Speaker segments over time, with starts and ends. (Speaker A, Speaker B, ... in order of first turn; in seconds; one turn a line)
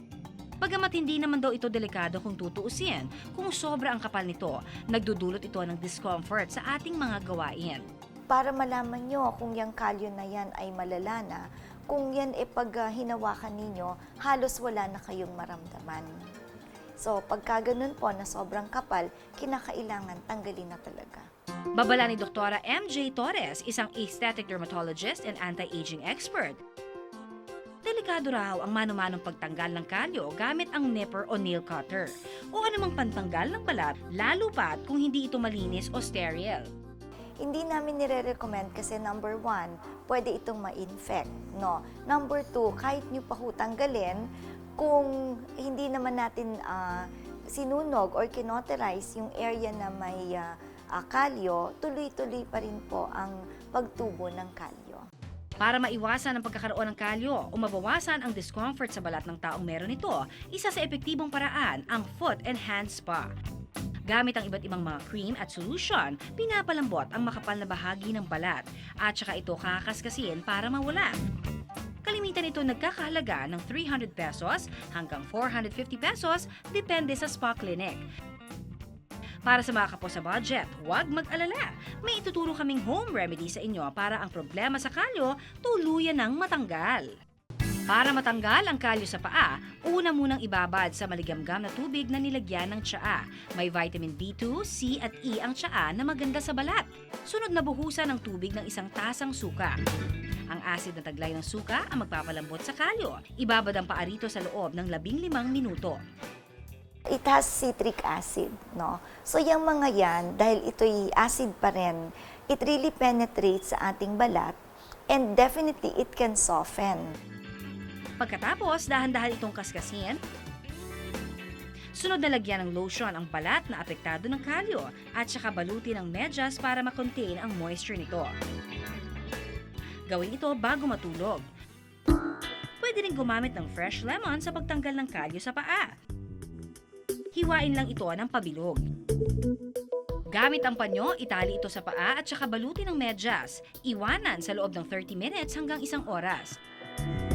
Speaker A: 0.6-7.8
Speaker B: 8.3-16.1
Speaker B: 17.0-21.3
Speaker A: 21.7-26.6
Speaker A: 27.8-36.7
Speaker B: 37.4-44.2
Speaker B: 44.8-55.0
Speaker A: 55.6-63.3
Speaker A: 64.1-71.1
Speaker A: 72.0-78.0
Speaker A: 79.5-87.1
Speaker A: 87.9-99.8
Speaker A: 100.5-106.0
Speaker B: 107.1-114.5
Speaker B: 115.1-117.0
Speaker A: 118.2-120.2
Speaker A: 122.0-128.3
Speaker A: 130.1-131.4
Speaker A: 132.8-135.9
Speaker A: 137.3-138.8
Speaker A: 140.3-146.6